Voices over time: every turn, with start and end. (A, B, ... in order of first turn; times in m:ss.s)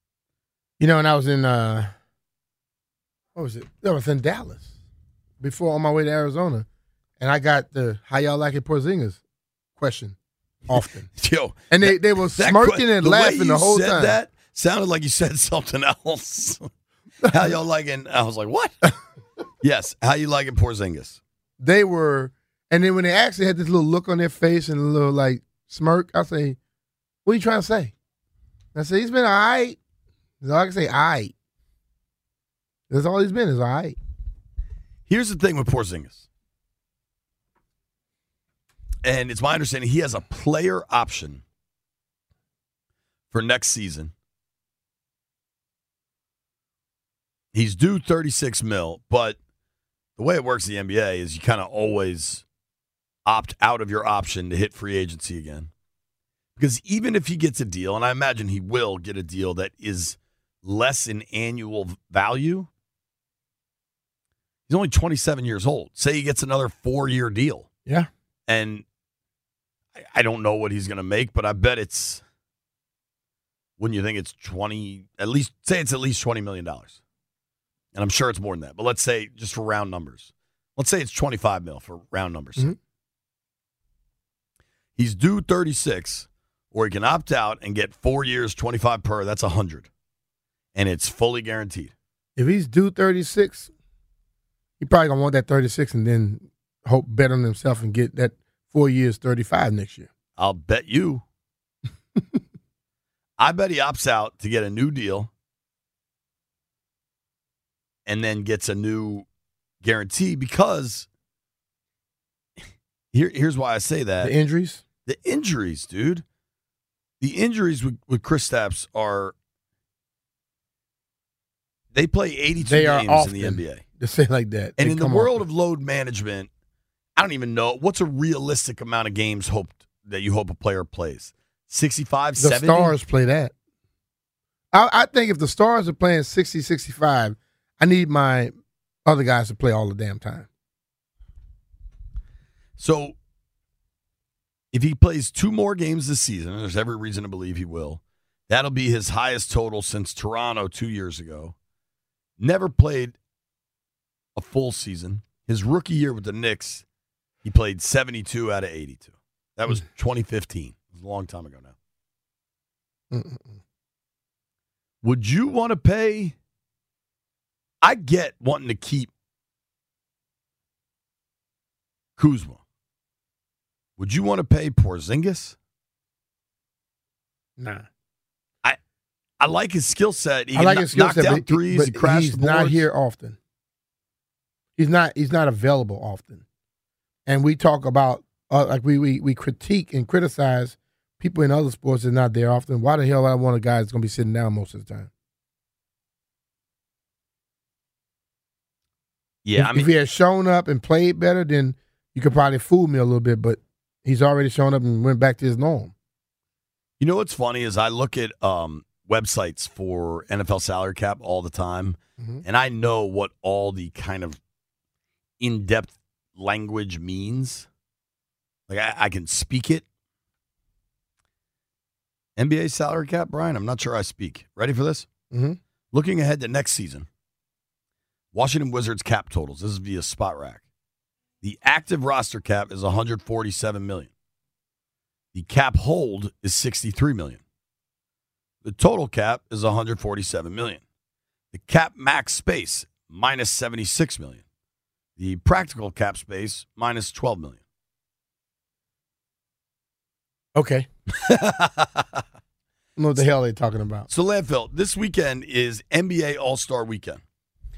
0:00.8-0:01.9 A
0:03.3-0:04.7 A
0:05.4-0:06.7 A
0:07.2-0:09.2 A
0:09.8-0:10.2 A
0:10.7-0:11.1 A
0:11.1-0:16.7 B
0:11.7-0:14.2 A
0:17.2-0:17.5 A
0:17.2-0:18.7 B
0:19.6-0:21.2 B
0:21.6-0:26.6 A
0:27.2-0:27.9 A
0:28.7-0:29.8 A
0:30.4-0:31.3 A
0:32.9-0:34.0 A
0:35.1-0:36.2 B
0:39.0-0:41.4 B
0:43.3-0:44.1 B
0:47.5-0:49.4 B
0:50.2-0:52.4 B
0:53.2-0:55.7 B
0:56.6-1:02.7 B
1:04.7-1:07.7 B
1:08.5-1:08.8 B
1:10.0-1:12.2 B
1:13.8-1:16.9 B
1:17.9-1:22.7 B
1:25.0-1:29.9 B
1:30.7-1:31.9 B
1:32.4-1:33.7 A
1:34.8-1:40.1 A
1:40.4-1:41.2 B
1:43.4-1:45.3 B
1:48.0-1:49.2 B
1:49.8-1:51.1 B
1:53.1-1:54.3 B
1:54.2-1:54.8 A
1:55.0-1:56.2 B
1:57.2-1:59.3 B
2:01.9-2:03.8 B
2:02.6-2:05.4 A
2:04.8-2:06.5 B
2:07.2-2:12.9 B
2:12.4-2:13.5 A
2:14.7-2:18.5 A
2:19.0-2:20.5 A
2:22.8-2:23.2 B
2:24.7-2:31.5 B
2:32.4-2:33.2 B
2:34.4-2:36.8 B
2:37.4-2:41.7 B
2:43.1-2:43.6 A
2:45.0-2:46.4 B
2:47.8-2:49.1 B
2:52.2-2:52.6 B
2:54.0-2:55.6 B
2:57.6-2:57.9 A
2:59.4-3:02.8 B
3:00.5-3:03.4 A
3:04.8-3:06.4 A
3:07.2-3:15.1 A
3:19.4-3:19.9 B
3:19.6-3:25.9 A
3:27.0-3:34.4 B
3:35.4-3:37.7 B
3:38.7-3:39.8 B
3:42.4-3:45.1 B
3:45.3-3:45.6 A
3:45.9-3:47.1 B
3:48.3-3:50.6 B
3:51.4-3:54.1 B
3:55.3-3:57.4 B
3:58.6-4:00.8 B
4:01.5-4:04.4 B
4:05.2-4:07.6 B
4:10.5-4:10.9 A
4:11.1-4:12.2 B
4:13.0-4:14.1 A
4:14.1-4:17.2 B